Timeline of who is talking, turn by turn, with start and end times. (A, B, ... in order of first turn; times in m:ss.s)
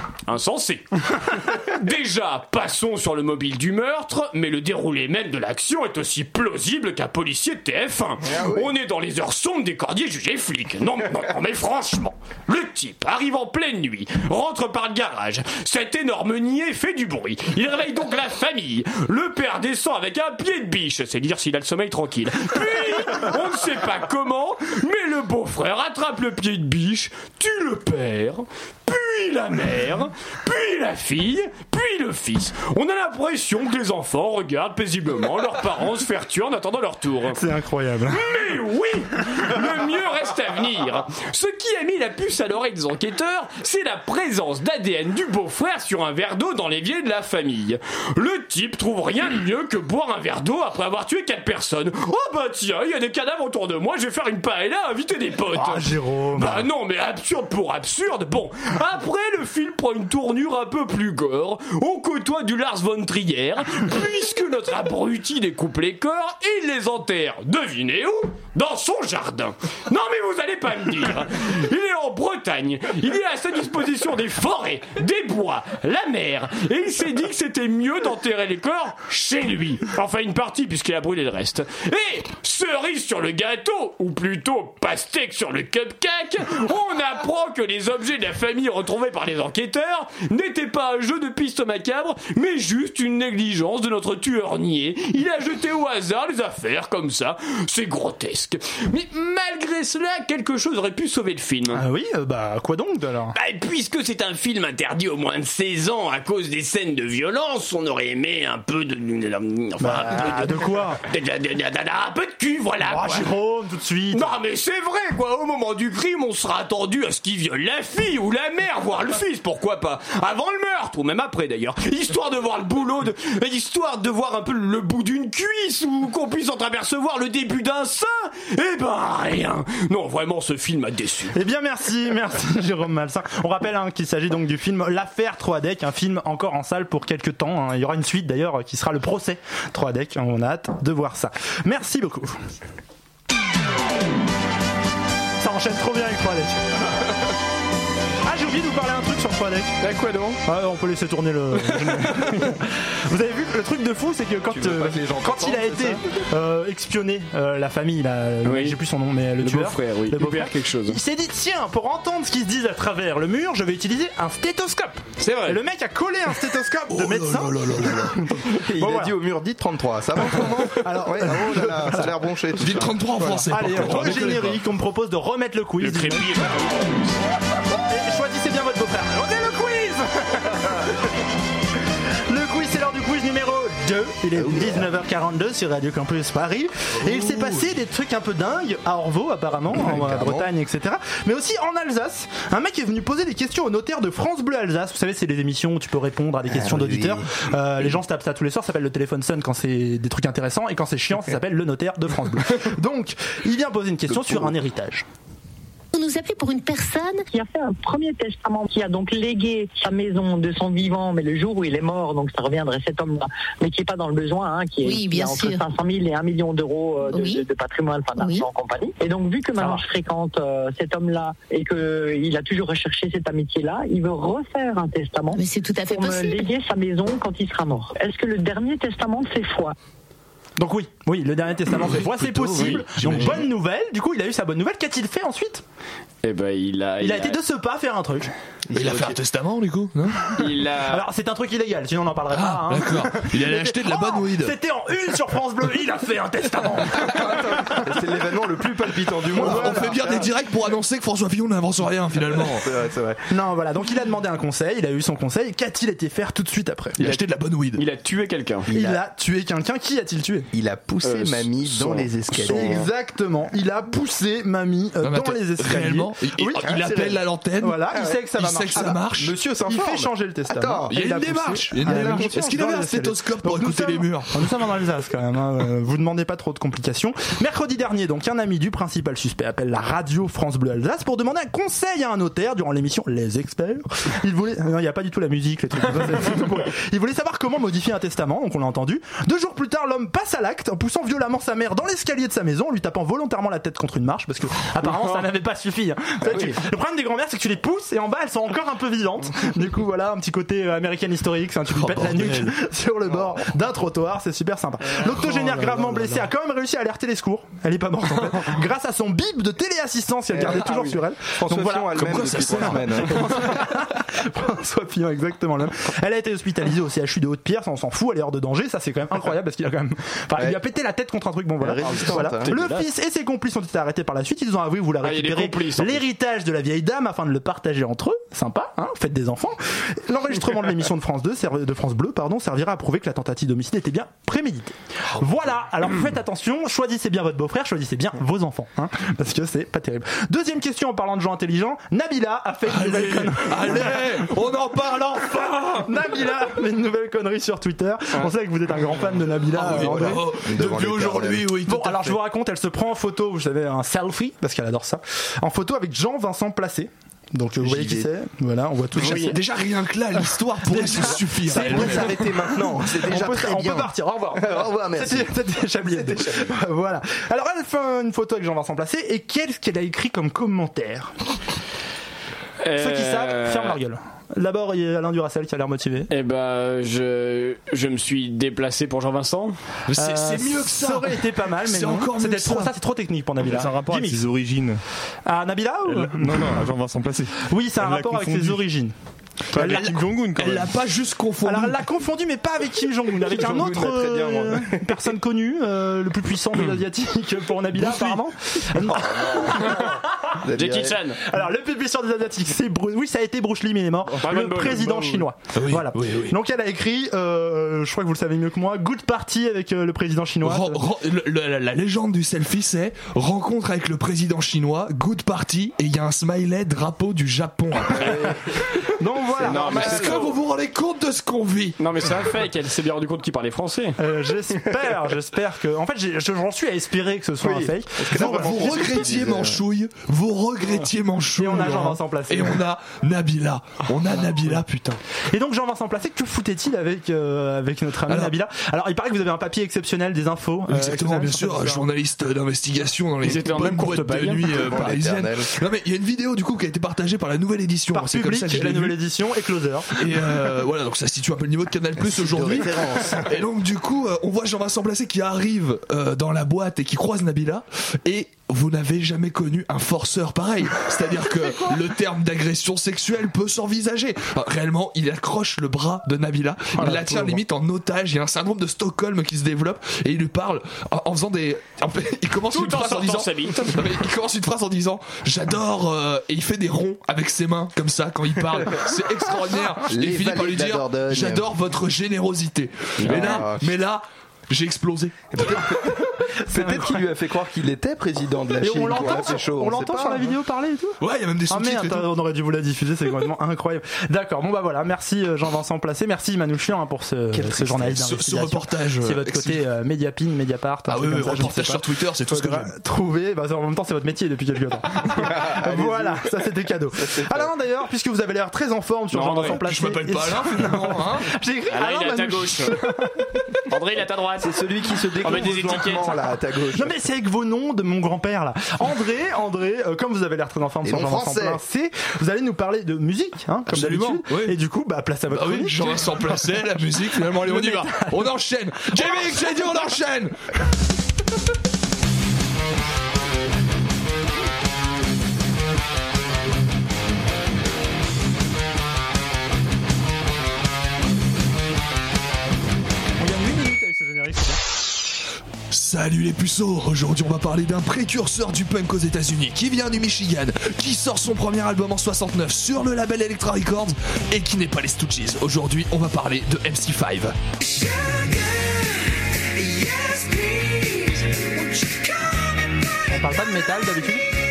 0:00.3-0:37.4 A
0:08.2-0:08.7 B
0:37.3-0:38.2 C
0:38.1-1:41.8 A
0:55.5-0:56.6 C
1:41.7-1:43.3 C
1:43.3-1:53.3 A
1:49.8-1:51.0 C
1:52.8-1:54.3 C
1:54.1-2:11.3 A
2:11.3-2:22.4 C
2:25.4-2:26.6 C
2:28.2-2:29.7 C
2:29.8-2:30.4 A
2:30.4-2:49.1 C
2:34.5-2:36.0 B
2:38.4-2:38.8 A
2:39.4-2:41.0 A
2:45.2-2:45.6 A
2:46.9-2:48.2 D
2:48.5-2:54.2 B
2:50.2-2:52.1 C
2:52.6-2:54.6 D
2:53.2-2:56.3 C
2:55.8-2:57.1 A
2:57.9-3:00.9 C
3:02.3-3:25.0 C
3:04.3-3:04.9 B
3:07.0-3:07.7 D
3:09.7-3:10.5 B
3:16.5-3:17.3 B
3:24.1-3:24.5 B
3:25.9-3:27.2 E
3:27.3-3:49.7 F
3:34.8-3:35.6 E
3:37.1-3:37.4 E
3:38.2-3:38.5 E
3:45.3-3:46.5 E
3:50.6-3:55.6 C
3:51.8-3:53.5 D
3:53.1-3:53.4 B
3:56.2-3:57.4 A
3:57.0-3:58.3 C
3:58.7-3:59.1 B
3:58.7-4:00.2 D
4:00.3-4:01.0 A
4:00.9-4:07.9 C
4:02.3-4:04.5 D
4:07.1-4:10.3 B
4:09.4-4:10.0 C
4:09.4-4:12.7 D
4:12.3-4:13.2 B
4:13.3-4:17.0 C
4:17.0-4:17.8 D
4:17.8-4:18.7 A
4:18.7-4:19.0 B
4:18.7-4:20.5 C
4:20.5-4:22.9 B
4:21.0-4:22.9 A
4:22.4-4:27.0 C
4:25.0-4:29.4 D
4:26.6-4:27.2 B
4:27.6-5:44.3 C
4:27.9-4:28.2 B
4:28.7-4:32.4 B
4:30.9-4:34.5 D
5:01.7-5:02.4 D
5:03.1-5:03.5 B
5:05.2-5:06.2 G
5:10.3-5:13.6 B
5:11.9-5:13.4 D
5:21.6-5:22.6 B
5:21.8-5:22.8 A
5:25.0-5:26.0 A
5:42.7-5:45.9 D
5:45.8-5:50.2 C
5:49.5-5:52.2 D
5:49.5-5:51.5 B
5:51.7-5:59.3 C
5:57.6-5:58.1 B
5:59.0-5:59.3 A
5:59.1-6:02.2 D
6:00.7-6:11.1 C
6:00.8-6:05.3 B
6:05.9-6:06.5 B
6:12.6-6:13.8 A
6:12.8-6:16.1 C
6:16.1-6:19.6 A
6:19.9-6:22.7 D
6:20.0-6:24.2 C
6:23.4-6:24.8 G
6:25.2-6:26.5 C
6:25.8-6:28.6 G
6:27.5-6:28.9 C
6:29.5-6:30.8 G
6:29.5-6:29.9 C
6:29.6-6:31.8 D
6:31.4-6:40.0 C
6:33.2-6:34.9 B
6:37.9-6:38.2 D
6:39.4-6:39.7 B
6:40.4-6:41.0 B
6:40.5-6:41.2 A
6:41.2-6:50.8 C
6:44.2-6:45.2 A
6:45.5-6:46.4 D
6:50.4-6:58.4 D
6:59.0-7:00.3 C
6:59.4-7:00.3 A
6:59.6-7:01.8 D
7:01.8-7:04.0 A
7:04.0-7:08.9 C
7:07.4-7:09.6 B
7:08.1-7:15.0 D
7:11.4-7:12.6 C
7:15.3-7:21.8 C
7:18.1-7:18.3 D
7:20.7-7:29.0 D
7:23.2-7:24.7 A
7:24.5-7:25.5 B
7:27.9-7:30.0 C
7:29.9-8:05.2 D
7:32.0-7:33.4 B
7:46.7-7:47.4 C
7:52.5-7:53.8 A
7:59.9-8:01.4 B
8:03.0-8:03.4 A
8:03.0-8:03.8 B
8:05.3-8:10.3 B
8:05.9-8:07.0 C
8:08.6-8:11.0 C
8:11.0-8:12.1 D
8:11.5-8:33.3 C
8:17.4-8:19.6 D
8:20.9-8:22.7 D
8:25.2-8:26.3 B
8:26.9-8:27.5 B
8:29.1-8:29.6 A
8:29.4-8:31.3 D
8:31.7-8:32.8 A
8:33.7-8:34.6 A
8:34.4-8:36.9 B
8:35.2-8:36.2 A
8:36.7-8:46.5 C
8:40.8-8:41.6 B
8:43.7-8:44.5 D
8:45.3-8:50.4 D
8:47.4-8:48.3 C
9:03.2-9:04.6 C
9:05.7-9:17.4 D
9:23.1-9:24.2 C